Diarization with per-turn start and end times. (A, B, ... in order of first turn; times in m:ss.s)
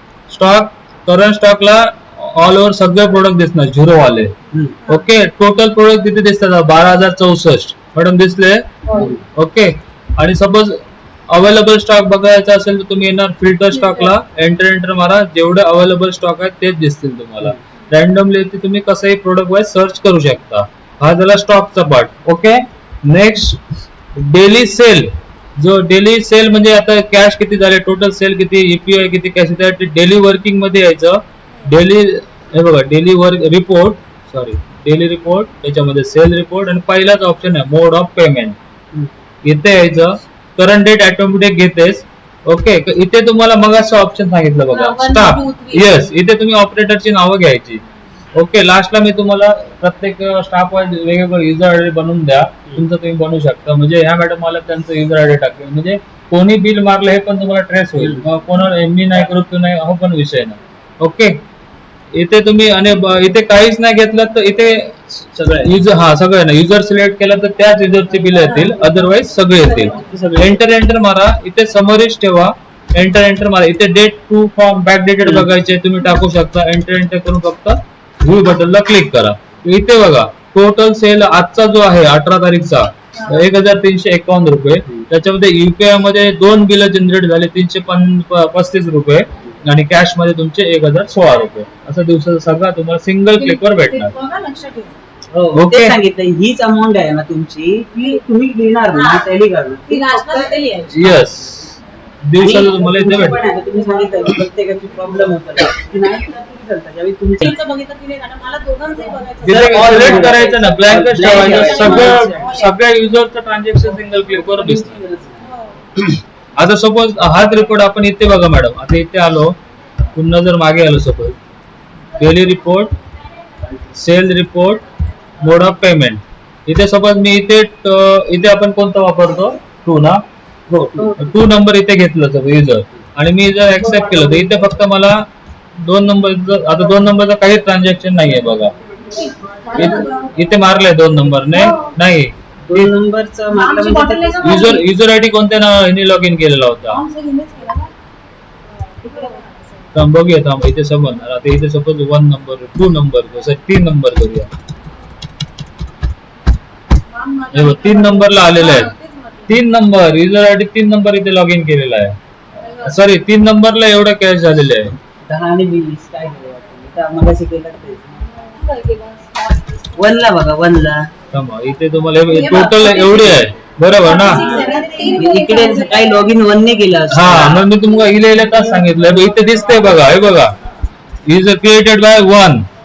0:00.3-0:04.3 A
0:04.5-0:04.8 B
0:04.9-0:08.7 A
0:08.9-0:09.2 C
0:08.9-0:09.2 B
0:09.4-0:23.6 A
0:24.2-0:38.6 A
0:39.4-0:47.8 A
0:44.7-0:46.0 C
0:48.3-1:01.4 A
0:58.0-0:58.2 B
1:02.1-1:34.1 A
1:05.4-1:05.7 B
1:09.9-1:10.4 B
1:15.2-1:15.5 B
1:33.4-1:35.0 C
1:35.3-1:40.6 B
1:35.5-1:36.0 A
1:39.0-1:39.2 C
1:39.9-1:41.2 C
1:40.9-1:43.4 A
1:42.4-1:47.6 B
1:47.4-1:50.5 C
1:49.4-1:55.0 A
1:49.4-1:52.5 B
1:51.2-1:52.7 C
1:54.3-1:55.5 B
1:56.0-1:59.6 A
2:00.2-2:01.4 A
2:02.2-2:03.0 A
2:03.9-2:04.8 A
2:05.4-2:10.2 A
2:10.7-2:11.2 B
2:11.2-2:15.3 A
2:13.9-2:14.4 C
2:15.8-2:18.7 A
2:19.1-2:20.3 C
2:19.7-2:22.9 A
2:22.7-2:24.8 B
2:23.5-2:24.8 C
2:24.4-2:27.0 A
2:26.9-2:27.9 C
2:28.9-2:29.8 C
2:29.9-2:34.5 A
2:37.1-2:39.5 C
2:37.5-2:38.9 A
2:39.5-2:44.9 A
2:45.3-2:48.2 B
2:48.4-2:49.8 C
2:50.0-2:51.1 B
2:51.3-2:54.5 A
2:52.3-2:53.5 C
2:54.0-2:56.2 C
2:54.4-2:57.7 B
2:57.1-3:00.5 A
3:01.3-3:02.6 A